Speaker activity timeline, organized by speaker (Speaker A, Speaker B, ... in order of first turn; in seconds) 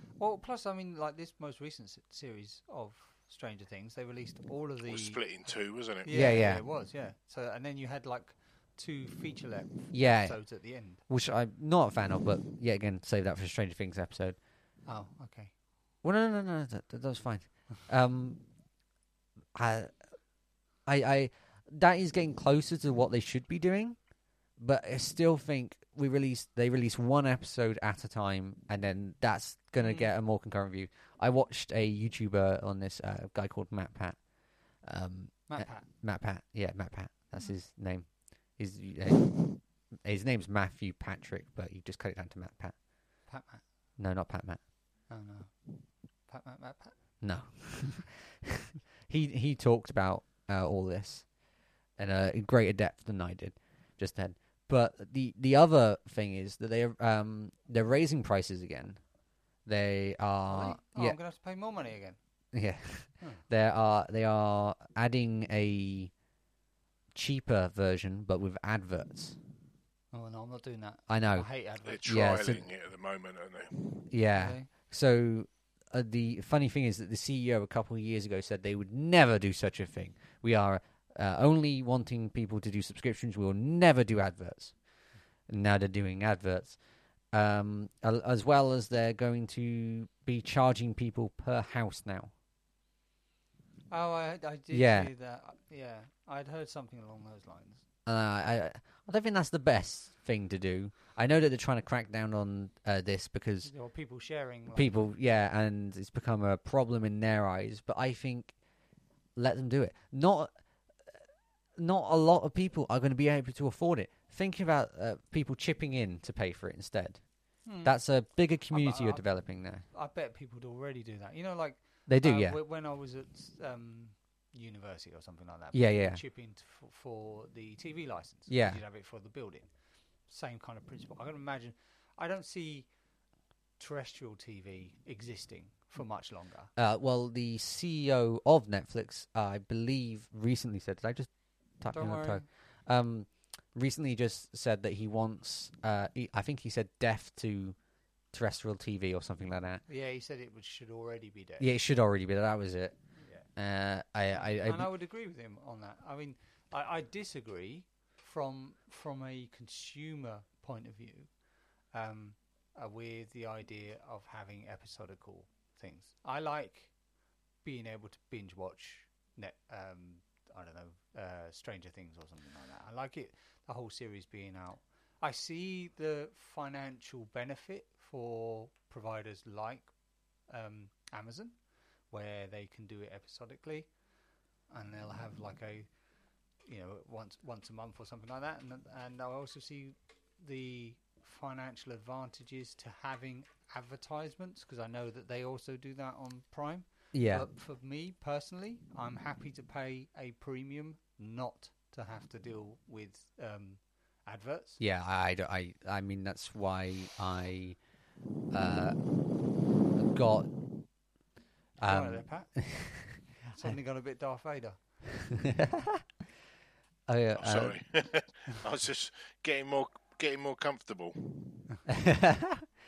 Speaker A: 0.2-5.2, 6.0-11.0, 14.9-15.5, 29.8-30.1, 35.5-35.9, 43.3-43.6, 45.1-45.5, 46.3-47.0, 60.5-62.2, 70.1-72.0, 74.3-74.7, 93.9-97.8, 103.6-105.0, 117.7-118.0, 118.7-119.2, 119.9-129.7, 130.3-132.9, 133.8-136.7, 141.9-142.4, 149.9-151.7, 153.2-153.5, 154.3-161.3, 161.9-166.9, 167.6-179.9, 180.5-181.6, 182.1-183.9, 184.7-185.9, 186.7-204.8, 211.8-212.5, 213.5-214.8
Speaker B: 4.8-6.2, 71.8-74.1, 217.4-221.6
Speaker C: 6.1-6.6, 9.9-10.4, 11.1-14.4, 16.0-18.4, 19.5-19.9, 20.9-24.0, 24.6-34.2, 34.8-38.1, 38.6-42.7, 44.0-44.6, 47.2-51.2, 52.0-59.0, 59.6-61.2, 62.5-66.1, 67.1-69.4, 71.1-71.5, 72.0-72.6, 74.1-84.7, 85.5-86.8, 87.3-92.3, 94.7-95.1, 98.0-103.7, 104.7-108.5, 109.3-110.5, 111.8-117.2, 117.8-119.8, 122.1-122.6, 125.7-126.2, 128.5-128.8, 136.8-147.8, 148.3-149.8, 151.6-153.0, 153.6-154.9, 197.1-197.5, 204.8-207.8, 208.5-209.0, 209.9-210.5, 211.8-213.7, 215.3-216.0, 217.1-217.8, 221.8-222.7